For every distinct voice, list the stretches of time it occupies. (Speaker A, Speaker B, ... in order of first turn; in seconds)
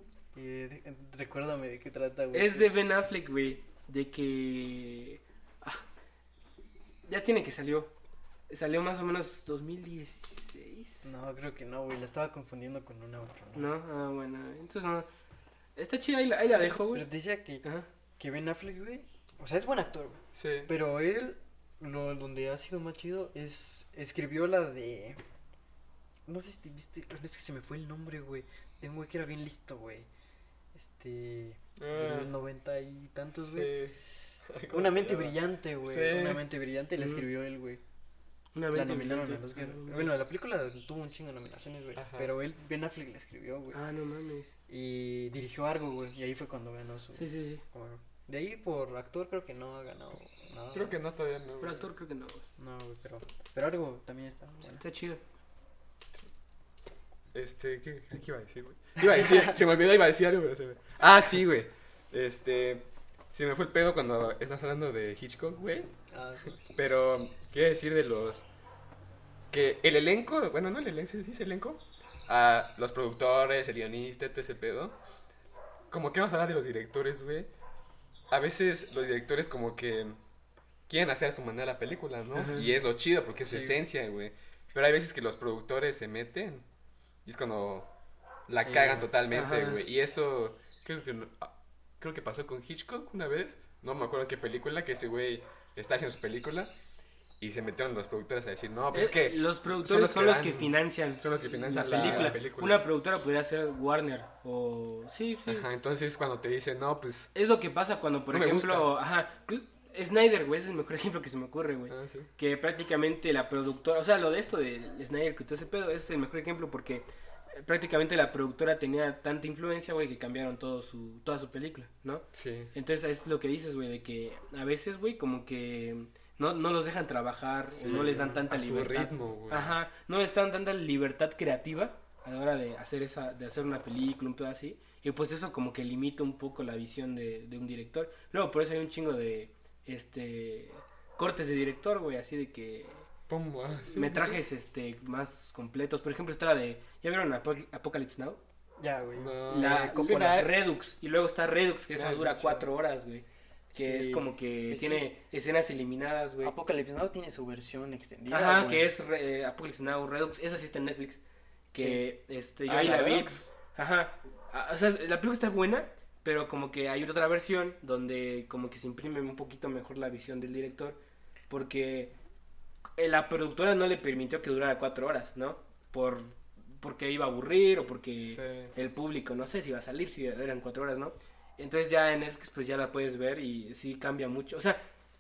Speaker A: 0.3-2.7, 11.0-13.7, 16.5-17.6, 18.2-25.2, 26.3-30.1, 30.7-33.8, 34.7-37.8, 38.7-43.8, 44.7-51.0, 52.6-54.8, 66.1-66.5, 83.5-83.8, 88.6-89.1, 127.7-128.5, 148.8-150.5, 153.7-155.1, 156.4-158.9
Speaker B: 2.3-5.8, 7.1-7.9, 8.5-11.1, 13.6-15.1, 15.8-17.1, 37.0-37.3, 38.5-40.1, 43.7-44.5, 47.1-47.6, 51.6-52.5, 54.6-55.2, 82.3-82.7, 89.3-89.8, 98.9-105.7, 107.3-143.1, 143.9-148.4, 149.5-156.6, 158.3-161.2, 161.7-171.0, 171.5-172.1, 173.0-184.8
Speaker C: 20.4-20.7, 31.8-32.4, 33.4-34.0, 34.5-36.5, 42.0-42.3, 50.7-51.9, 57.3-65.9, 66.7-68.5, 69.5-75.0, 75.9-77.5, 78.3-80.2, 80.9-86.7, 87.2-87.9, 88.5-96.7, 97.4-102.8, 105.5-107.3, 108.3-108.9, 111.9-112.3, 122.3-122.7, 127.8-129.7, 143.3-144.4, 149.2-150.5, 151.9-152.7, 162.7-163.5, 178.2-178.7